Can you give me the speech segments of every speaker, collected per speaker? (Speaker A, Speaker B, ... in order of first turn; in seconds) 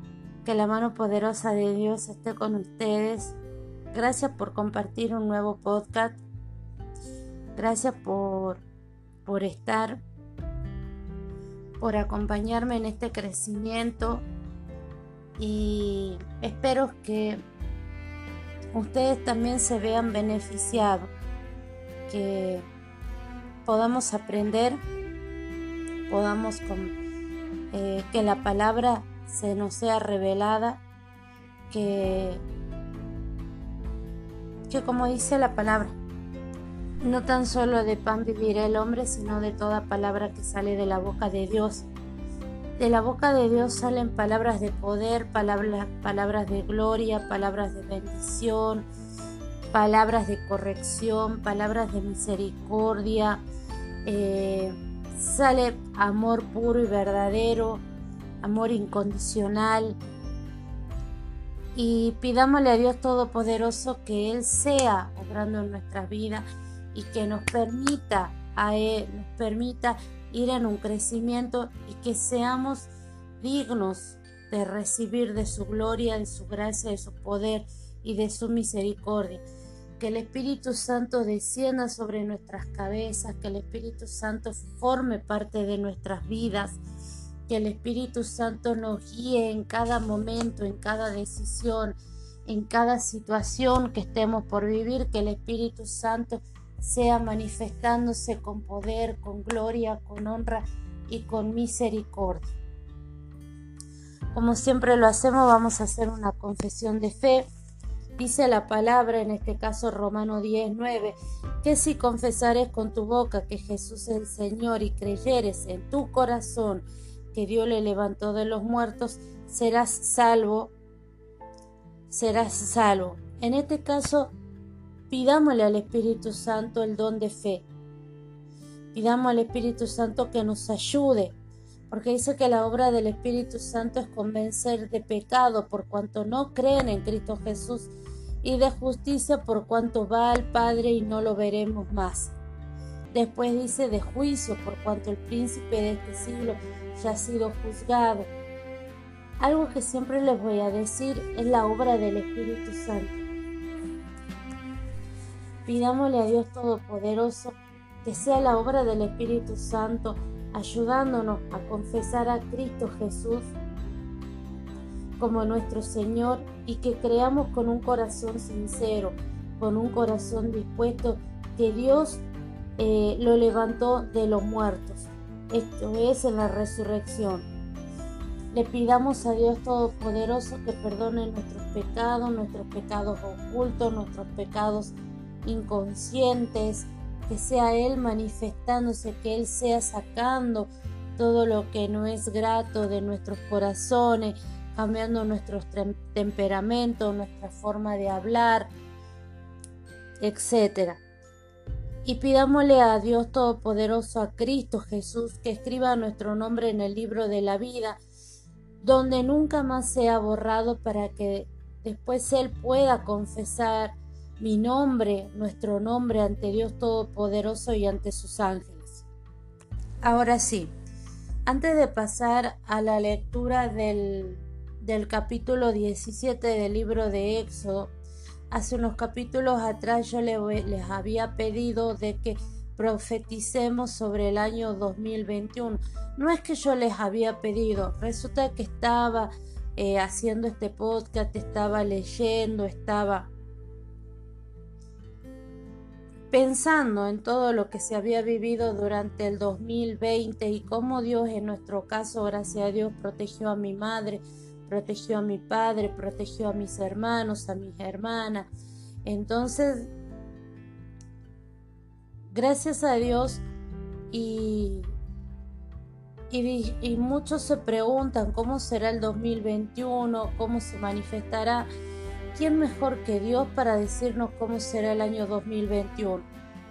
Speaker A: 0.5-3.4, 3.9-6.2, 7.6-8.6, 9.3-10.0, 11.8-14.3, 15.4-17.4, 18.8-21.1, 22.1-22.7, 23.7-24.8, 26.1-27.0, 27.7-30.8, 31.7-32.4, 34.7-36.0, 37.0-41.9, 42.8-48.9, 49.7-53.5, 54.0-57.8, 58.4-60.0, 61.8-79.5, 80.0-86.8, 87.5-102.5, 104.3-107.5, 108.2-120.7, 122.1-124.3, 125.1-127.7, 128.9-131.3, 131.9-137.9, 138.4-142.3, 143.1-148.3, 149.4-153.2, 155.7-163.5, 165.2-172.2, 172.8-177.5, 178.5-198.7, 200.2-201.0, 202.1-208.0, 208.8-219.1, 220.0-220.7, 221.5-227.9, 228.5-243.3, 246.3-258.5, 259.1-259.9, 262.3-263.4, 264.1-264.9, 266.3-271.7, 272.4-276.3